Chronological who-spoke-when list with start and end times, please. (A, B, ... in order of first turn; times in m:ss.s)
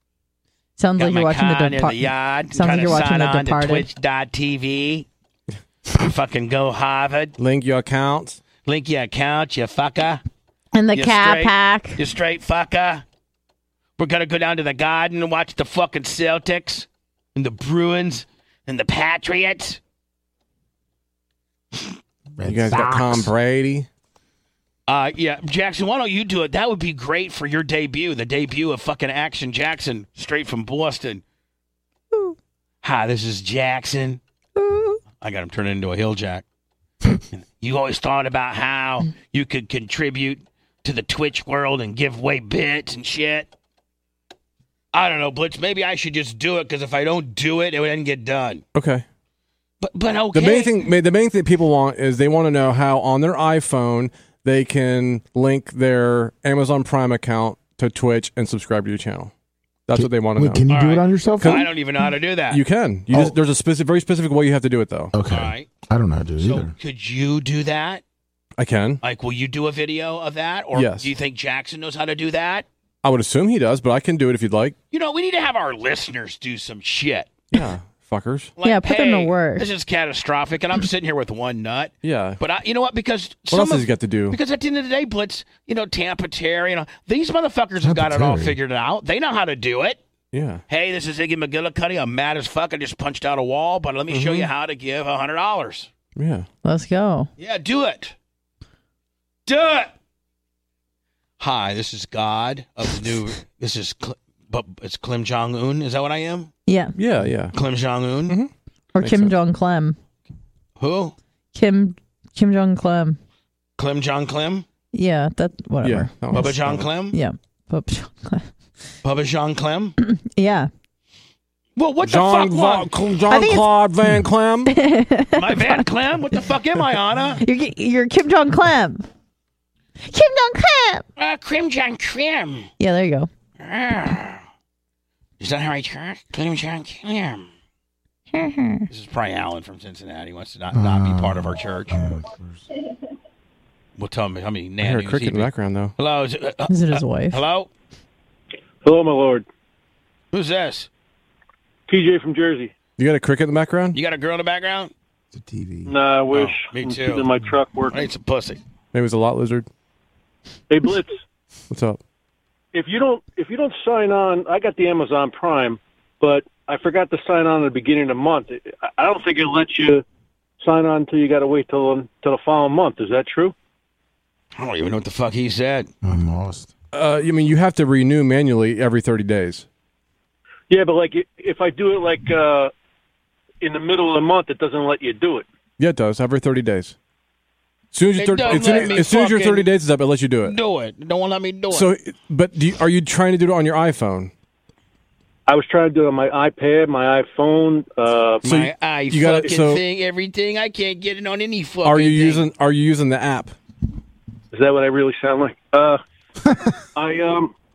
0:00.8-0:03.9 A
0:01.0-0:05.1 B
0:06.0-0:07.4 B
0:07.4-0:08.4 C
0:08.6-0:10.2 B
0:10.7-0:12.0 A
0:11.0-0:13.0 B
0:14.0-0:19.8 B
0:22.4-0:23.3 D
0:22.4-0:23.9 C
0:24.9-0:31.2 B
0:32.8-0:34.2 B
0:34.6-0:35.0 A
0:35.2-0:36.4 B
0:37.3-0:43.5 B
0:44.9-0:48.6 B
0:48.8-0:49.0 C
0:49.8-0:50.8 B
0:50.3-0:59.3 C
0:59.9-1:00.7 C
0:59.9-1:01.7 D
1:00.7-1:02.6 B
1:01.4-1:01.7 C
1:02.5-1:05.1 C
1:05.1-1:06.7 D
1:05.3-1:05.7 B
1:06.4-1:08.0 B
1:08.6-1:09.0 C
1:09.0-1:12.7 B
1:10.7-1:11.1 C
1:13.0-1:14.8 C
1:14.9-1:17.5 B
1:17.5-1:18.5 C
1:18.6-1:30.0 B
1:18.6-1:19.7 A
1:22.0-1:22.4 C
1:23.5-1:24.4 C
1:27.8-1:28.6 D
1:30.3-1:30.6 C
1:30.7-1:35.9 B
1:34.1-1:34.5 C
1:36.2-1:36.5 C
1:36.6-1:37.3 A
1:37.4-1:38.1 B
1:39.5-1:39.9 B
1:41.4-1:46.5 B
1:46.7-1:47.0 A
1:47.0-1:47.6 C
1:47.5-1:48.4 B
1:48.3-1:49.4 C
1:49.0-1:50.0 A
1:50.8-1:51.2 B
1:51.5-1:53.2 A
1:53.8-1:54.7 B
1:54.9-1:58.5 A
1:55.8-1:56.9 C
1:56.3-1:57.2 B
1:59.0-2:00.0 B
2:00.0-2:00.7 A
2:01.8-2:02.9 B
2:02.0-2:04.7 C
2:03.3-2:03.8 A
2:04.7-2:05.8 A
2:05.3-2:07.4 B
2:07.4-2:09.1 A
2:10.0-2:11.0 A
2:11.2-2:12.7 B
2:12.8-2:13.3 A
2:13.6-2:14.4 B
2:15.4-2:17.5 B
2:18.3-2:18.9 A
2:18.9-2:22.1 B
2:20.7-2:22.6 D
2:24.0-2:27.7 B
2:24.8-2:25.9 C
2:26.7-2:27.4 A
2:28.8-2:29.5 E
2:30.3-2:30.9 B
2:31.9-2:32.7 E
2:33.0-2:34.0 C
2:34.0-2:34.9 B
2:35.3-2:35.9 D
2:35.9-2:38.1 E
2:36.3-2:37.3 B
2:37.9-2:38.6 B
2:38.9-2:39.7 C
2:40.7-2:41.2 E
2:41.7-2:42.0 C
2:42.7-2:50.0 E
2:50.6-2:53.5 E
2:54.6-2:55.9 B
2:56.0-2:56.7 D
2:56.9-2:59.7 C
3:00.7-3:02.7 E
3:03.6-3:05.5 E
3:05.8-3:07.0 C
3:07.9-3:10.6 C
3:08.2-3:09.7 B
3:10.4-3:11.9 B
3:11.7-3:14.3 C
3:15.5-3:18.4 E
3:18.4-3:22.4 B
3:18.4-3:19.8 C
3:21.8-3:23.6 C
3:24.5-3:26.0 E
3:27.0-3:27.5 E